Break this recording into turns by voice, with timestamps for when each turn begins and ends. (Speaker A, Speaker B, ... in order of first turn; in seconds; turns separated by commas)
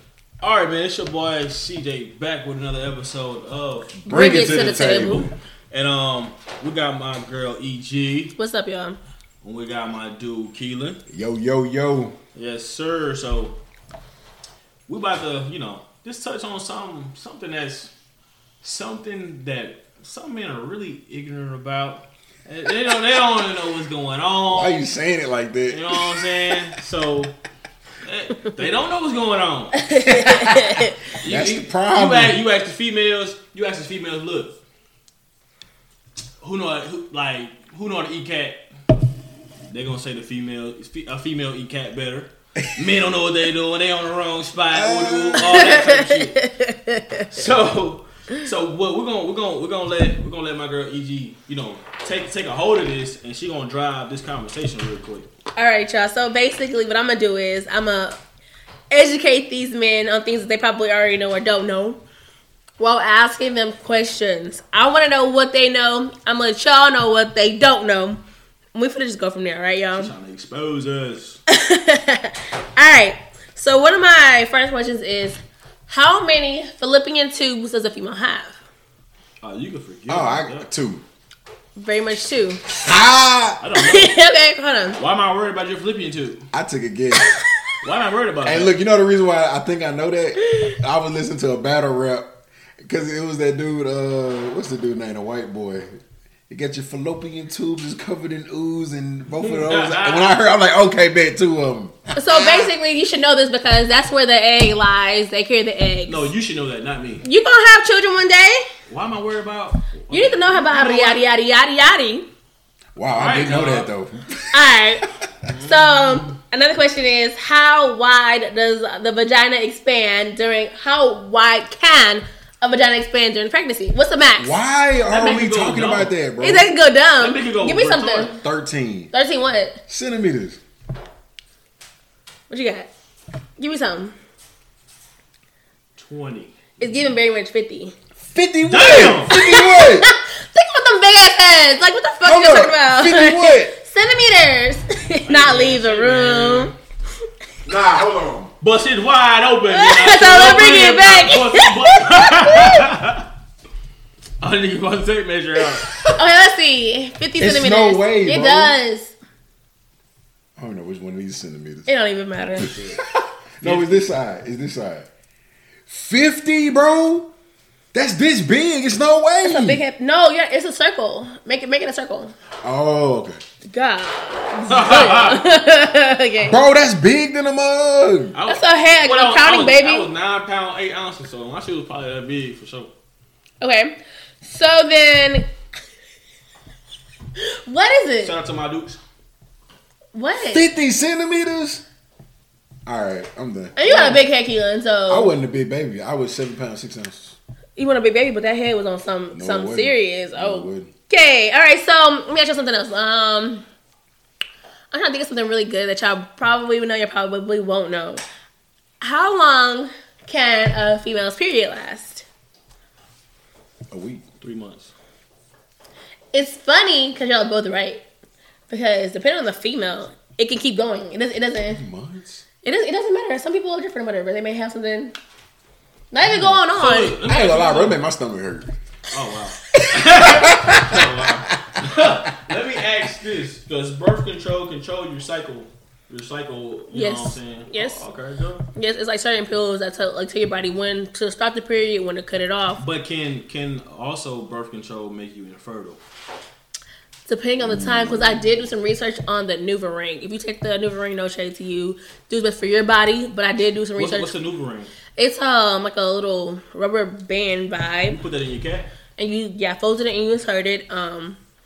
Speaker A: 0.4-4.0, Speaker B: 4.0-5.3, Speaker C: 4.1-5.3, Speaker A: 5.7-8.3, Speaker C: 8.3-9.0, Speaker A: 9.4-11.0, Speaker B: 11.1-12.1, Speaker A: 12.3-13.6, Speaker A: 14.9-17.9, Speaker A: 18.6-24.8, Speaker B: 24.5-26.5, Speaker A: 25.7-27.4, Speaker A: 28.0-29.8, Speaker C: 29.7-31.0, Speaker B: 29.9-32.4, Speaker A: 31.2-34.6, Speaker A: 36.4-38.6, Speaker A: 39.7-46.4, Speaker B: 44.7-45.8, Speaker C: 45.4-47.3, Speaker A: 47.3-55.3, Speaker C: 55.5-58.2, Speaker C: 58.9-62.0, Speaker C: 62.8-68.2, Speaker C: 68.7-70.1, Speaker A: 70.0-71.4, Speaker C: 71.5-78.6, Speaker A: 79.4-80.7, Speaker B: 80.1-81.0, Speaker C: 81.8-82.6, Speaker B: 82.8-83.6, Speaker A: 83.6-84.1, Speaker C: 83.7-85.0, Speaker A: 85.0-86.4, Speaker B: 86.5-87.3, Speaker A: 87.8-88.7, Speaker B: 88.4-92.3, Speaker B: 92.8-102.7, Speaker A: 99.3-100.4, Speaker C: 102.2-106.3, Speaker A: 106.1-107.2, Speaker C: 107.2-108.7, Speaker A: 108.9-111.2, Speaker C: 110.1-112.2, Speaker B: 112.9-114.7, Speaker A: 113.1-113.9, Speaker C: 114.5-115.0, Speaker A: 115.5-116.3, Speaker C: 115.6-124.5, Speaker B: 124.4-126.7, Speaker A: 125.1-126.1, Speaker C: 126.4-128.3, Speaker A: 127.2-128.4, Speaker B: 128.4-129.1, Speaker C: 129.1-129.8, Speaker B: 129.9-130.6, Speaker C: 132.5-132.9, Speaker C: 133.6-134.1, Speaker A: 136.0-136.7, Speaker C: 136.8-137.9, Speaker B: 138.3-140.1, Speaker A: 138.7-139.3, Speaker C: 139.3-146.7, Speaker B: 142.2-143.7, Speaker A: 145.3-146.7, Speaker B: 147.6-148.5, Speaker A: 148.6-153.2, Speaker C: 149.7-152.8, Speaker A: 154.4-155.9, Speaker C: 156.1-159.1, Speaker B: 157.4-158.7, Speaker B: 160.6-161.9, Speaker C: 161.9-162.8, Speaker B: 162.6-165.1, Speaker A: 163.6-164.1, Speaker B: 165.9-167.3, Speaker B: 167.9-169.8, Speaker C: 169.4-172.3, Speaker B: 172.6-173.4, Speaker C: 173.6-176.6, Speaker A: 174.7-175.4, Speaker B: 176.4-178.4, Speaker A: 178.3-182.9, Speaker C: 178.5-180.1, Speaker C: 183.6-185.4, Speaker C: 187.4-188.3, Speaker A: 188.2-189.0, Speaker C: 190.1-190.6, Speaker B: 190.4-191.8, Speaker B: 192.8-194.2, Speaker C: 193.8-195.3, Speaker B: 195.1-197.3, Speaker C: 197.8-203.6, Speaker B: 199.3-200.9, Speaker C: 204.9-208.2, Speaker C: 209.0-212.2, Speaker B: 213.9-214.2, Speaker A: 214.4-214.9, Speaker C: 216.3-218.0, Speaker C: 218.7-221.8, Speaker B: 221.7-222.4, Speaker C: 222.6-225.1, Speaker C: 226.1-227.1, Speaker A: 226.6-228.0, Speaker B: 227.2-228.7, Speaker A: 229.1-238.6, Speaker B: 229.7-231.8, Speaker C: 236.9-238.0, Speaker C: 238.7-242.8, Speaker A: 242.8-246.0, Speaker C: 247.3-254.3, Speaker B: 247.6-248.6, Speaker A: 253.9-254.9, Speaker C: 255.2-258.2, Speaker A: 258.1-258.9, Speaker C: 259.2-261.4